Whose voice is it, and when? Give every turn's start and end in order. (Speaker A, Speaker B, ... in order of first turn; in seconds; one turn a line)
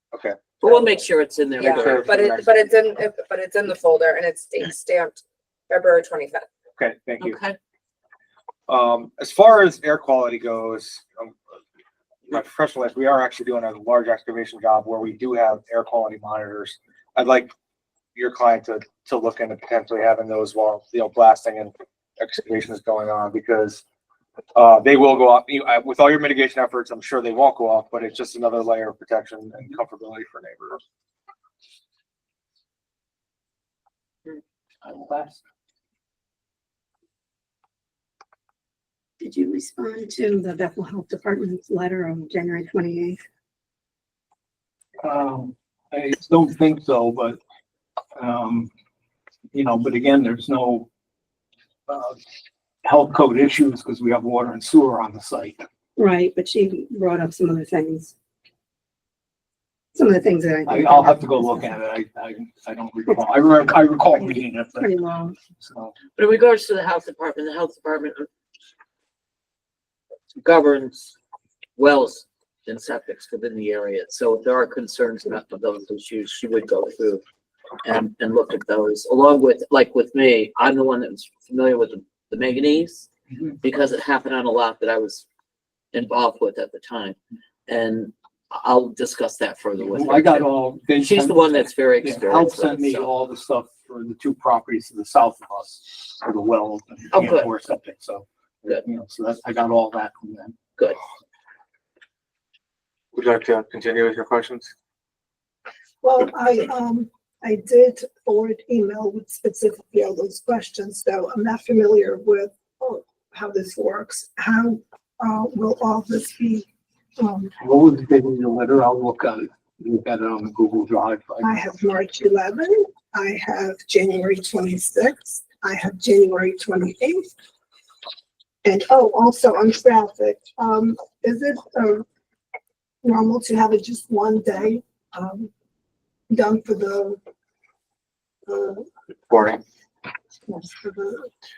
Speaker A: 0.1-0.4
Speaker B: 0.6-2.1
Speaker C: 1.6-6.5
Speaker A: 1.6-2.8
Speaker A: 6.8-7.4
Speaker B: 7.2-7.6
Speaker A: 8.7-11.3
Speaker A: 12.3-17.5
Speaker A: 18.1-23.8
Speaker A: 24.5-30.8
Speaker D: 34.8-35.4
Speaker E: 39.2-43.2
Speaker D: 45.0-47.4
Speaker D: 48.1-48.7
Speaker D: 49.5-50.9
Speaker D: 51.9-52.2
Speaker D: 52.8-55.6
Speaker E: 56.0-58.1
Speaker E: 59.9-61.4
Speaker D: 60.6-65.9
Speaker E: 64.8-65.3
Speaker B: 66.1-68.3
Speaker B: 70.3-71.2
Speaker B: 71.8-77.2
Speaker B: 77.8-83.1
Speaker B: 83.6-85.2
Speaker B: 85.9-87.2
Speaker B: 87.7-93.1
Speaker D: 89.8-100.5
Speaker B: 97.1-97.5
Speaker A: 103.1-104.7
Speaker F: 106.0-116.7
Speaker F: 117.2-117.5
Speaker D: 117.6-121.5
Speaker F: 121.4-127.3
Speaker F: 128.6-132.0
Speaker F: 133.0-135.5
Speaker F: 136.3-137.2
Speaker F: 138.5-138.8
Speaker A: 139.3-139.6
Speaker F: 140.5-141.3